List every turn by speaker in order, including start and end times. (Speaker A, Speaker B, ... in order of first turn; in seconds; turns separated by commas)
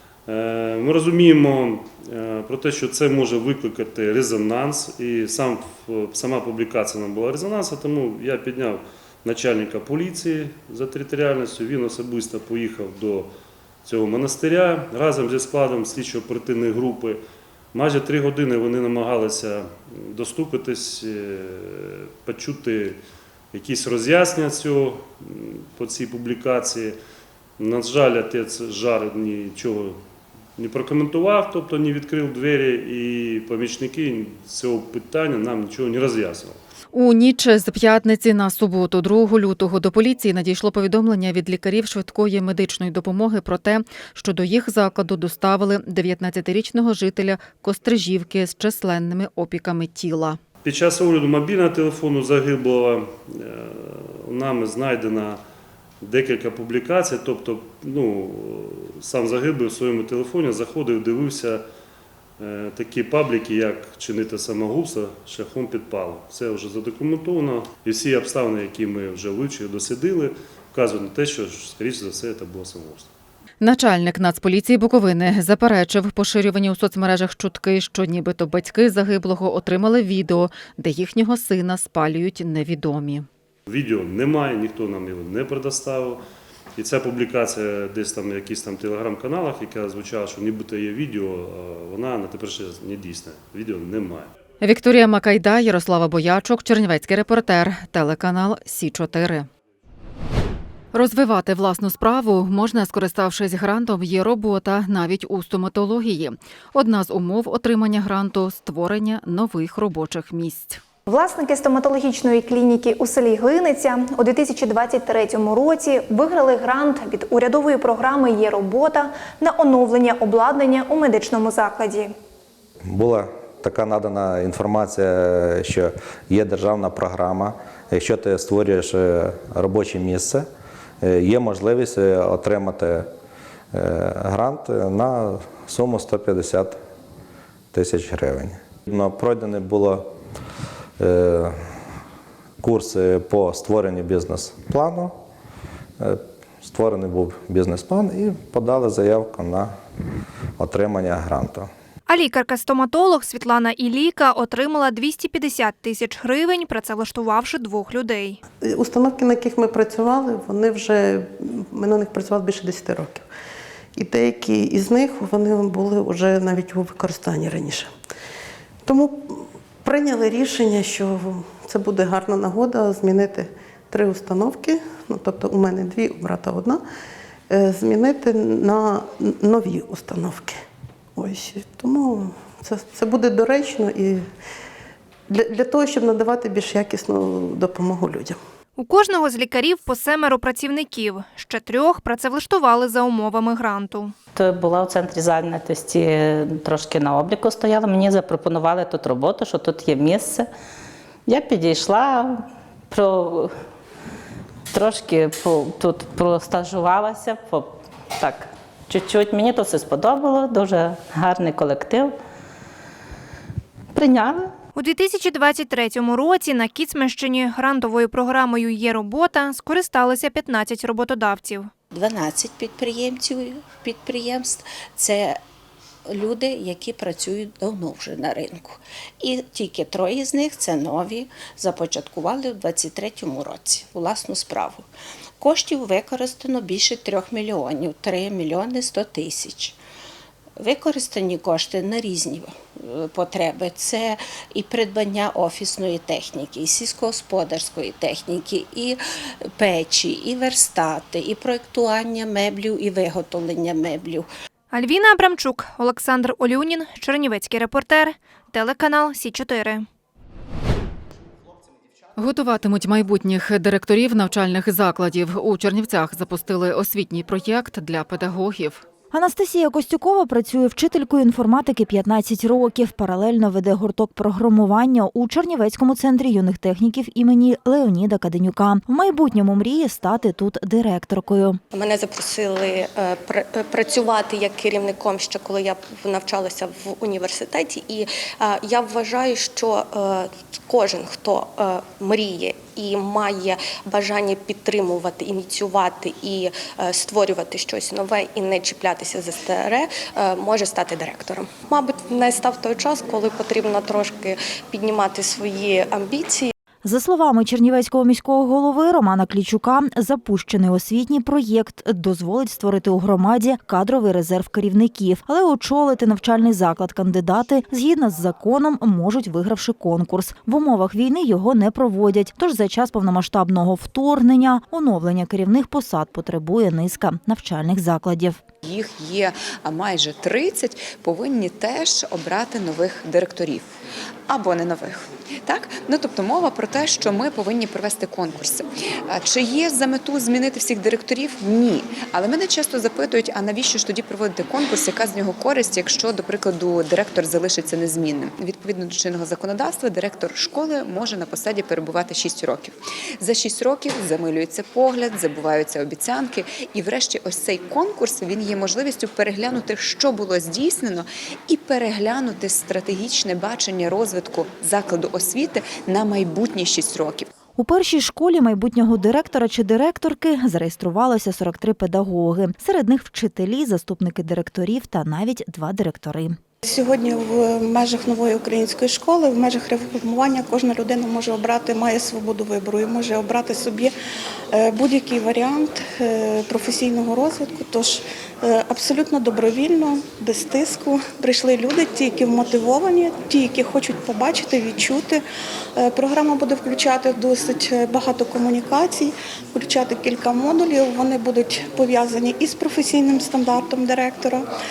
Speaker A: 0.3-13.3, Speaker A: 13.8-17.2, Speaker A: 17.7-23.0, Speaker A: 23.5-27.0, Speaker A: 27.6-30.0, Speaker A: 30.6-36.6, Speaker B: 36.9-50.4, Speaker A: 50.6-55.4, Speaker A: 56.0-61.6, Speaker A: 62.4-73.1, Speaker B: 73.6-83.3, Speaker A: 83.7-86.2, Speaker A: 86.8-94.3, Speaker B: 94.6-99.5, Speaker B: 100.9-110.8, Speaker A: 111.1-122.1, Speaker C: 122.9-130.4, Speaker C: 131.0-133.1, Speaker C: 133.7-136.8, Speaker C: 137.7-140.1, Speaker C: 141.0-141.6, Speaker C: 142.6-145.1, Speaker C: 146.0-149.7, Speaker C: 150.6-151.7, Speaker D: 152.1-158.4, Speaker E: 158.7-163.2, Speaker E: 163.9-167.9, Speaker E: 168.8-176.8, Speaker E: 177.5-180.6, Speaker E: 181.2-184.2, Speaker E: 185.3-188.4, Speaker D: 188.8-194.1, Speaker F: 194.4-200.5, Speaker F: 201.3-203.5, Speaker F: 204.7-212.1, Speaker F: 213.9-214.5, Speaker D: 214.8-221.7, Speaker G: 221.9-225.4, Speaker G: 226.1-234.8, Speaker G: 235.4-239.8, Speaker G: 240.6-249.0, Speaker G: 249.5-254.3, Speaker D: 254.7-259.9, Speaker B: 262.2-268.8, Speaker H: 269.1-281.6, Speaker I: 282.1-282.4, Speaker I: 284.7-285.2, Speaker I: 287.1-287.5, Speaker I: 288.7-289.4, Speaker I: 297.1-299.2, Speaker I: 300.6-300.9, Speaker I: 302.7-305.6, Speaker H: 306.8-328.4, Speaker J: 328.6-333.7, Speaker J: 334.3-367.3, Speaker H: 367.6-376.4, Speaker K: 376.6-383.9, Speaker K: 384.5-395.2, Speaker K: 395.8-404.4